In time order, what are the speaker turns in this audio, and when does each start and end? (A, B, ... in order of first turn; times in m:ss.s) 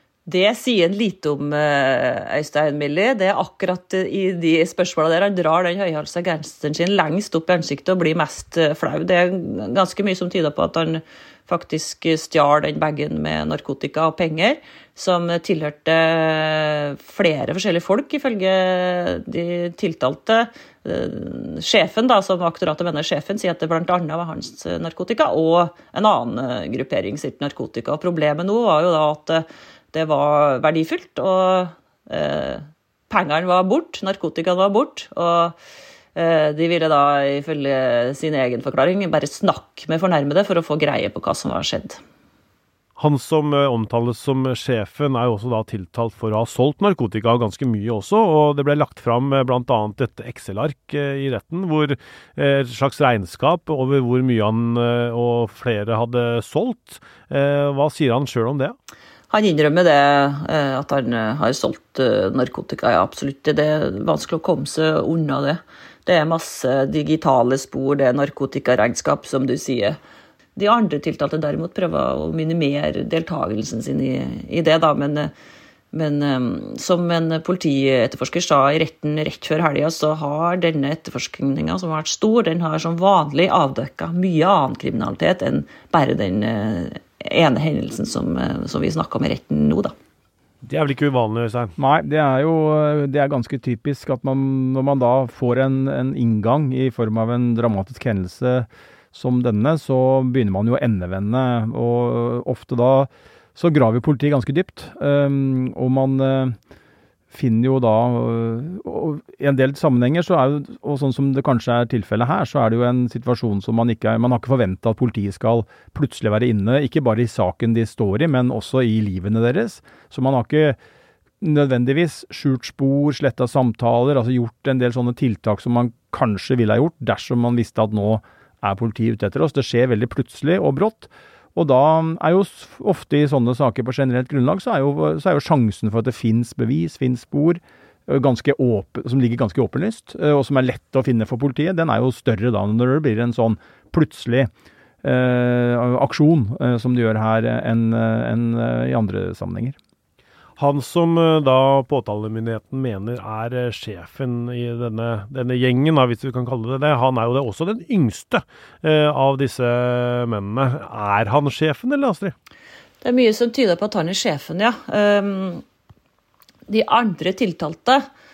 0:00.3-0:35.6 A
0:36.1-0:42.0 A
0:43.0-0:58.8 B
0:59.3-1:10.0 A
1:10.6-1:15.3 A
1:15.9-1:29.9 A
1:30.6-1:31.8 B
1:31.8-1:46.6 C
1:47.3-2:00.8 C
2:01.4-2:24.5 C
2:25.0-2:29.8 C
2:30.6-2:42.4 B
2:43.0-2:45.6 A
2:46.7-2:48.1 A